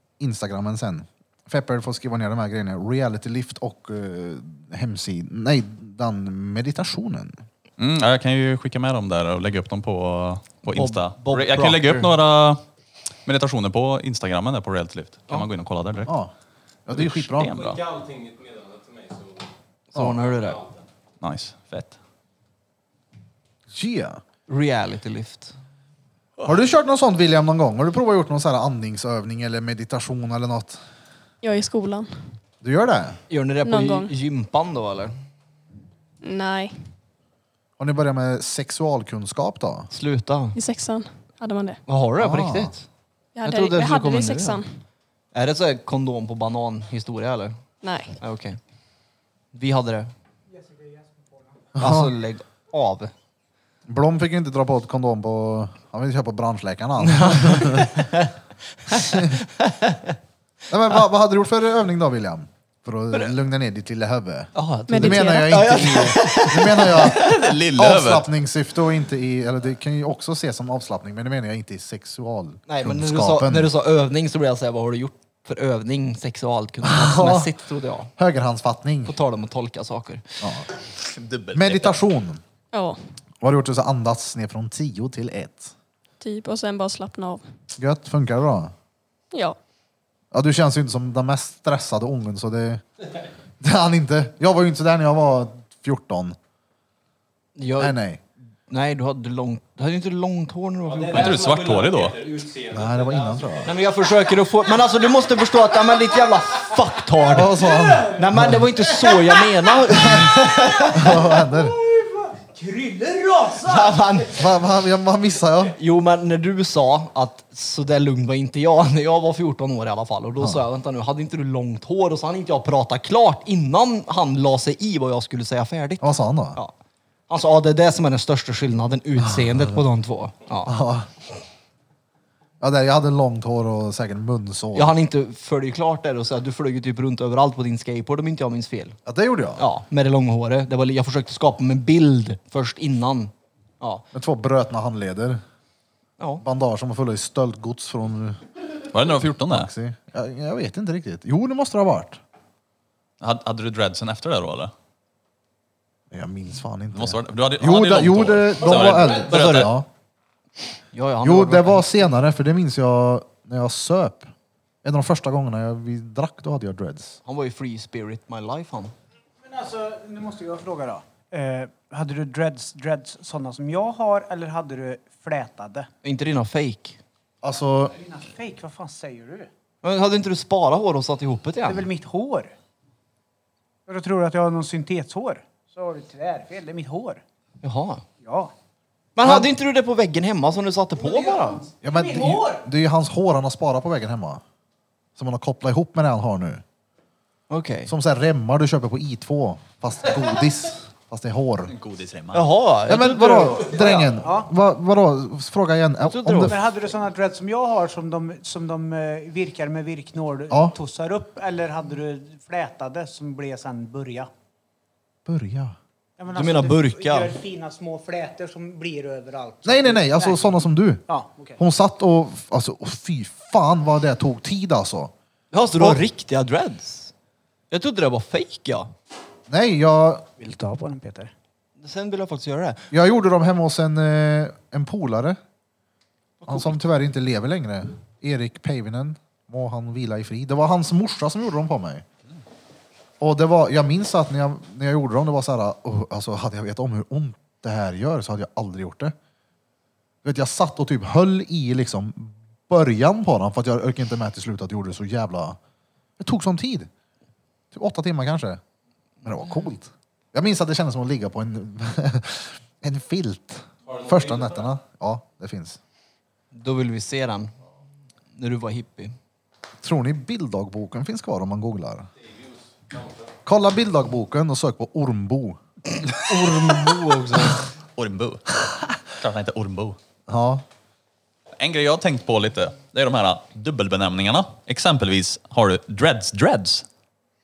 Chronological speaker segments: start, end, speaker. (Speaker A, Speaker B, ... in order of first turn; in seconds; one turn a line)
Speaker A: 0.2-7.4
Speaker B: 7.8-12.6
Speaker C: 10.7-12.1
Speaker B: 13.3-16.1
Speaker A: 16.1-16.3
Speaker A: 16.9-17.6
Speaker B: 16.9-17.8
Speaker D: 17.4-19.5
Speaker C: 19.9-20.6
Speaker D: 20.3-20.8
Speaker B: 21.2-22.0
Speaker A: 23.7-24.2
Speaker C: 24.5-25.5
Speaker A: 26.4-30.8
Speaker E: 31.4-32.1
Speaker A: 32.6-33.2
Speaker C: 33.3-35.1
Speaker E: 33.6-34.1
Speaker E: 36.2-36.7
Speaker A: 37.8-39.9
Speaker C: 39.9-40.6
Speaker E: 40.5-41.8
Speaker C: 41.9-42.9
Speaker A: 42.2-42.7
Speaker E: 43.4-44.8
Speaker A: 43.5-44.6
Speaker C: 45.3-47.6
Speaker E: 47.8-48.2
Speaker C: 48.2-48.6
Speaker C: 49.5-50.1
Speaker F: 50.5-51.5
Speaker A: 51.8-52.1
Speaker C: 51.8-53.1
Speaker A: 53.9-58.1
Speaker C: 57.0-58.3
Speaker C: 58.9-60.1
Speaker A: 58.9-59.4
Speaker A: 60.7-73.7
Speaker C: 64.5-67.5
Speaker E: 64.9-66.0
Speaker B: 66.9-68.3
Speaker C: 72.7-78.1
Speaker A: 76.8-77.5
Speaker A: 78.2-79.1
Speaker C: 79.1-80.3
Speaker A: 80.4-80.7
Speaker B: 81.0-82.0
Speaker A: 81.5-82.4
Speaker E: 82.7-83.0
Speaker A: 83.4-85.7
Speaker E: 86.2-87.4
Speaker A: 87.8-88.7
Speaker A: 90.3-92.8
Speaker A: 93.6-96.4
Speaker C: 97.6-98.0
Speaker A: 97.8-98.2
Speaker C: 98.7-101.4
Speaker D: 100.8-103.8
Speaker B: 101.1-102.2
Speaker A: 102.7-103.7
Speaker C: 103.7-107.6
Speaker A: 107.3-108.7
Speaker F: 107.4-108.2
Speaker C: 108.1-111.2
Speaker F: 108.8-114.0
Speaker A: 109.9-110.3
Speaker A: 110.9-111.8
Speaker C: 113.6-114.4
Speaker A: 114.3-115.7
Speaker C: 115.8-126.7
Speaker A: 126.0-126.6
Speaker C: 127.3-130.8
Speaker A: 129.3-129.6
Speaker A: 130.7-131.1
Speaker A: 132.6-134.9
Speaker C: 134.7-139.0
Speaker A: 139.1-139.6
Speaker C: 139.6-144.0
Speaker A: 144.1-145.4
Speaker C: 146.2-146.4
Speaker A: 146.4-148.4
Speaker B: 148.9-149.7
Speaker A: 149.5-152.2
Speaker B: 153.2-154.7
Speaker A: 156.1-159.9
Speaker B: 156.9-159.7
Speaker C: 159.3-159.7
Speaker C: 160.9-162.0
Speaker A: 161.2-164.3
Speaker A: 164.8-167.2
Speaker C: 167.2-168.9
Speaker F: 169.4-175.9
Speaker C: 176.0-177.0
Speaker A: 177.4-177.9
Speaker F: 177.9-179.5
Speaker C: 179.8-181.9
Speaker F: 181.7-182.5
Speaker F: 183.9-187.2
Speaker C: 187.6-188.0
Speaker F: 188.2-188.5
Speaker C: 189.2-191.6
Speaker A: 189.2-189.5
Speaker F: 191.0-192.6
Speaker A: 191.8-194.4
Speaker A: 195.2-196.6
Speaker C: 197.5-197.9
Speaker A: 197.9-201.7
Speaker B: 201.7-202.5
Speaker C: 202.3-204.1
Speaker A: 202.9-206.6
Speaker F: 204.2-204.5
Speaker C: 206.0-206.6
Speaker F: 206.4-214.3
Speaker A: 210.5-210.8
Speaker A: 215.3-215.8
Speaker F: 216.2-221.6
Speaker C: 216.3-217.3
Speaker A: 219.7-221.0
Speaker A: 221.6-225.1
Speaker C: 225.5-227.1
Speaker A: 225.8-226.0
Speaker C: 227.7-228.9
Speaker A: 229.5-230.3
Speaker F: 230.4-231.3
Speaker C: 231.8-232.9
Speaker A: 232.9-235.4
Speaker C: 236.4-236.8
Speaker A: 236.5-242.1
Speaker A: 243.2-249.2
Speaker A: 250.2-255.6
Speaker A: 256.2-256.9
Speaker A: 257.7-258.6
Speaker A: 259.2-265.8
Speaker D: 263.9-264.7
Speaker C: 266.5-267.6
Speaker C: 268.4-269.1
Speaker A: 269.8-272.1
Speaker D: 272.2-273.3
Speaker A: 273.5-275.6
Speaker C: 276.2-277.6
Speaker B: 278.0-280.0
Speaker A: 280.3-280.6
Speaker B: 281.6-286.9